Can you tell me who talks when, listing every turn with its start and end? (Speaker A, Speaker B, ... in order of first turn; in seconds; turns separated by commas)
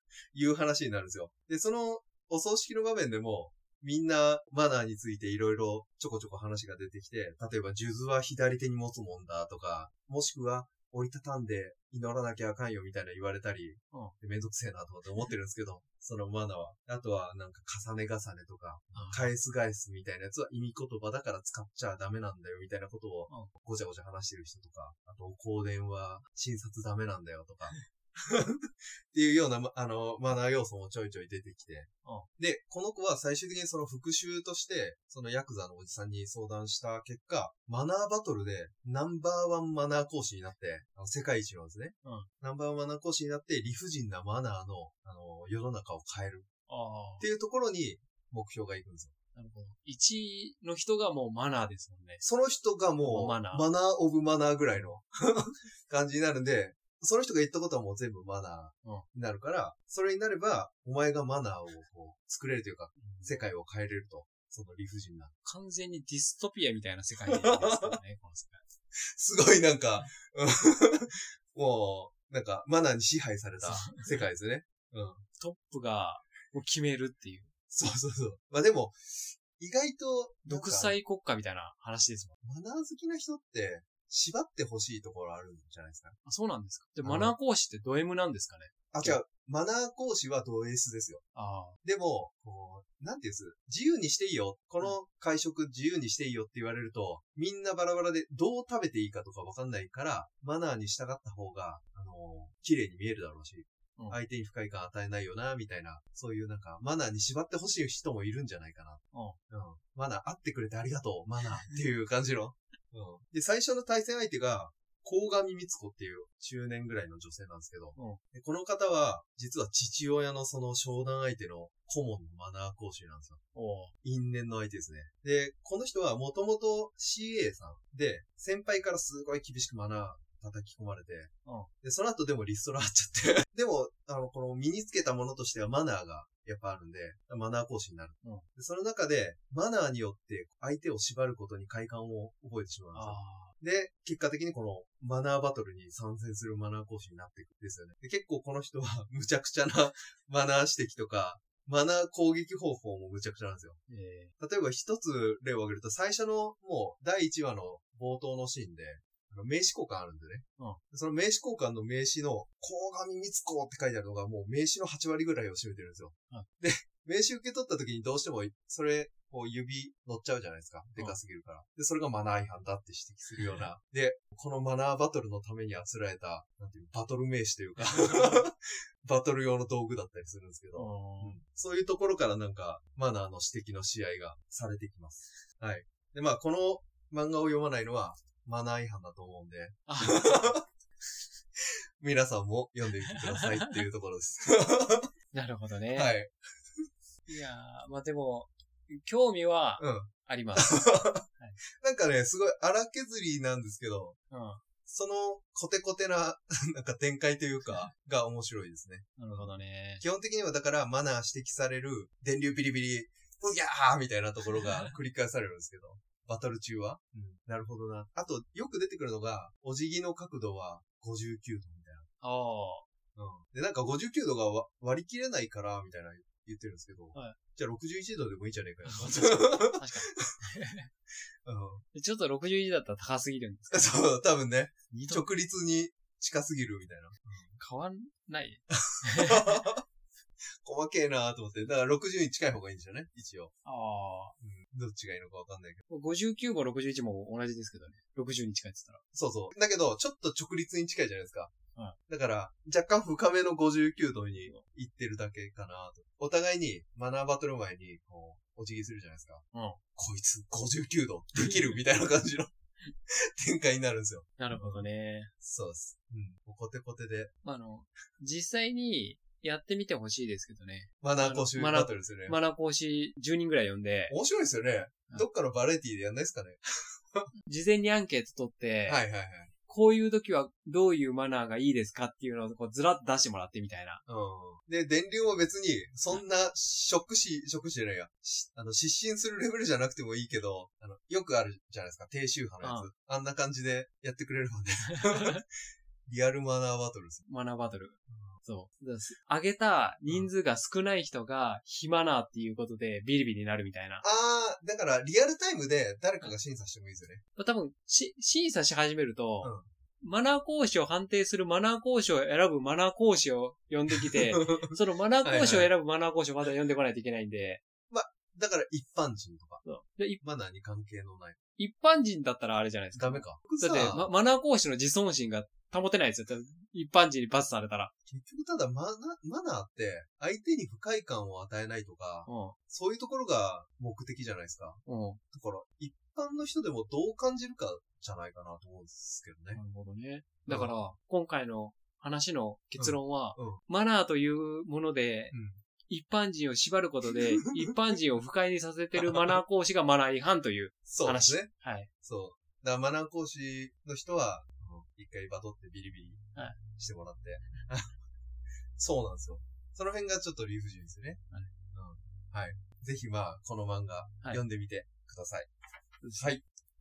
Speaker A: 0.3-46.5, Speaker B: 18.9-19.3, Speaker B: 42.0-42.3, Speaker B: 46.7-47.2, Speaker A: 47.2-49.1, Speaker B: 49.3-52.2, Speaker A: 52.2-65.3, Speaker B: 53.0-53.7, Speaker B: 63.0-63.5, Speaker B: 65.4-68.6, Speaker A: 67.3-68.0, Speaker A: 69.2-75.2, Speaker B: 73.6-74.3, Speaker B: 75.4-77.5, Speaker A: 77.7-81.0, Speaker B: 80.5-82.4, Speaker A: 82.4-86.2, Speaker B: 86.2-89.2, Speaker A: 87.0-87.3, Speaker A: 88.9-91.2, Speaker B: 91.3-91.8, Speaker A: 91.8-123.4, Speaker B: 109.1-109.4, Speaker B: 118.0-118.2, Speaker B: 123.5-123.9, Speaker A: 124.0-153.8, Speaker B: 131.4-131.7, Speaker B: 142.9-143.5, Speaker B: 153.9-154.3, Speaker A: 154.4-190.6, Speaker B: 173.4-173.7, Speaker B: 177.8-178.4, Speaker B: 180.8-181.4, Speaker B: 189.9-190.6, Speaker A: 192.0-195.1, Speaker B: 193.1-193.8, Speaker B: 195.3-196.1, Speaker A: 195.9-196.8, Speaker B: 197.3-201.6, Speaker A: 199.8-201.3, Speaker A: 201.8-204.2, Speaker B: 204.3-204.6, Speaker A: 204.9-222.1, Speaker B: 209.2-210.0, Speaker B: 214.6-214.9, Speaker B: 222.2-222.8, Speaker A: 223.2-230.3, Speaker B: 228.8-230.9, Speaker A: 231.4-231.8, Speaker B: 231.9-234.0, Speaker A: 233.7-237.6, Speaker B: 234.9-235.3, Speaker B: 237.6-239.6, Speaker A: 238.7-239.8, Speaker A: 240.6-243.5, Speaker B: 243.7-244.4, Speaker A: 244.4-245.8, Speaker B: 245.9-249.0, Speaker A: 249.1-251.5, Speaker A: 252.1-259.4, Speaker B: 254.4-254.6, Speaker B: 259.5-259.8, Speaker A: 260.0-262.5, Speaker B: 261.4-261.8, Speaker A: 263.4-264.9, Speaker B: 264.4-265.3, Speaker A: 265.4-267.3, Speaker B: 267.4-274.1, Speaker A: 271.0-272.4, Speaker A: 274.1-277.3, Speaker B: 277.5-279.0, Speaker A: 278.9-279.5, Speaker B: 279.7-284.0, Speaker A: 284.1-295.4, Speaker B: 292.6-292.9, Speaker B: 294.9-295.4, Speaker A: 296.1-297.3, Speaker B: 297.3-304.0, Speaker A: 298.1-298.4, Speaker A: 304.0-307.2, Speaker B: 307.4-317.6, Speaker A: 309.4-309.7, Speaker A: 314.1-315.8, Speaker A: 317.9-319.6, Speaker B: 319.6-320.2, Speaker A: 320.2-321.4, Speaker B: 321.6-327.9, Speaker A: 322.9-324.1, Speaker A: 328.1-339.6, Speaker B: 332.3-332.6, Speaker B: 334.9-335.2, Speaker B: 339.5-345.4, Speaker A: 340.5-340.7, Speaker A: 342.8-343.6, Speaker A: 345.3-345.6, Speaker B: 345.9-351.9, Speaker A: 347.1-348.0, Speaker A: 349.0-349.4, Speaker A: 350.9-351.5, Speaker A: 352.0-357.9, Speaker A: 358.8-361.2, Speaker A: 361.7-365.5, Speaker B: 366.0-366.4, Speaker A: 366.2-366.4